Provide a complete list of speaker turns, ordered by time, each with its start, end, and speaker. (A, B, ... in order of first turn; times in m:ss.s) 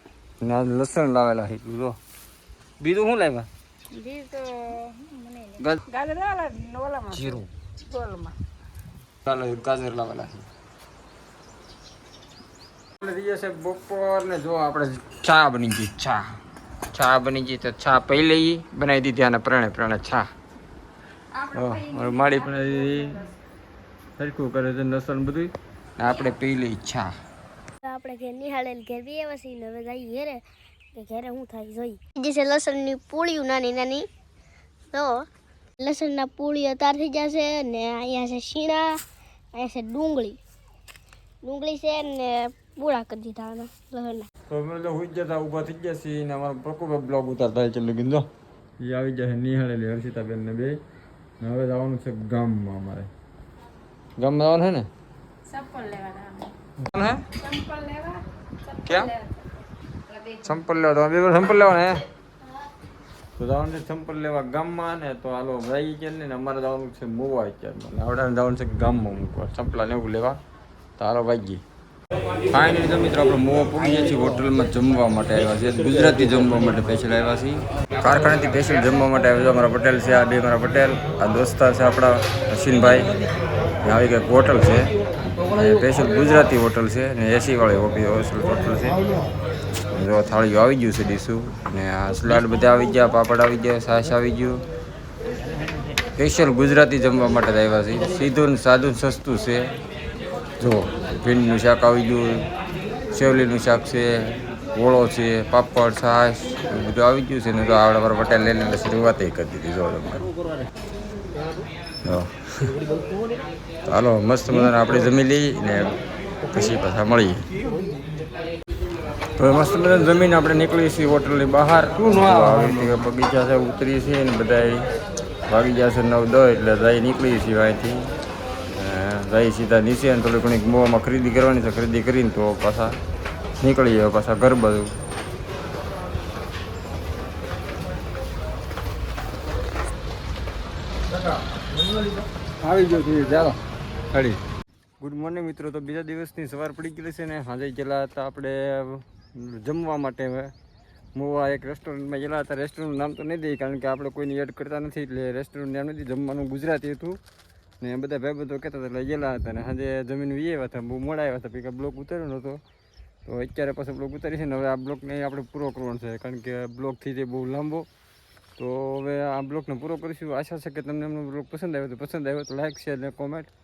0:00.4-0:02.0 A
0:02.8-0:03.5 A
0:03.9-0:08.3 B
0:05.6-0:05.8 A
0:07.1-0:07.5 A
0:09.2-0:10.5 A
0:13.0-0:16.4 A
0:16.9-0:20.3 A
0:21.3-0:23.2 B
0:21.5-0:23.3 A
0:24.2-0:27.1 A
0:27.8-0:30.4 C
0:30.9-0:34.0 C
0:34.9-0:35.2 C
0:35.8-0:39.0 C
0:39.5-0:40.4 C
0:41.4-0:44.3 C
0:44.5-0:48.3 A
0:48.8-0:50.8 A
0:51.4-0:53.1 A
0:54.2-0:54.9 A
0:55.4-0:56.5 B
0:56.8-0:57.2 A
0:57.4-0:59.4 B
0:58.8-0:59.1 A
1:00.4-1:02.0 A
1:03.4-1:10.4 A
1:11.0-1:11.6 A
1:12.5-1:23.1 A
1:23.8-1:24.9 A
1:25.5-1:29.0 A
1:29.9-1:34.6 A
1:36.2-1:39.7 A
1:40.6-1:42.5 A
1:43.1-1:50.3 A
1:52.0-1:52.7 A
1:53.9-1:57.5 A
1:59.4-2:04.9 A
2:05.5-2:08.1 A
2:08.7-2:13.0 A
2:13.6-2:14.9 A
2:22.6-2:23.6 A
2:24.1-2:24.4 A
2:25.0-2:30.5 A
2:31.2-2:37.2 A
2:37.8-2:42.6 A
2:43.2-2:47.9 A
2:48.6-2:53.5 A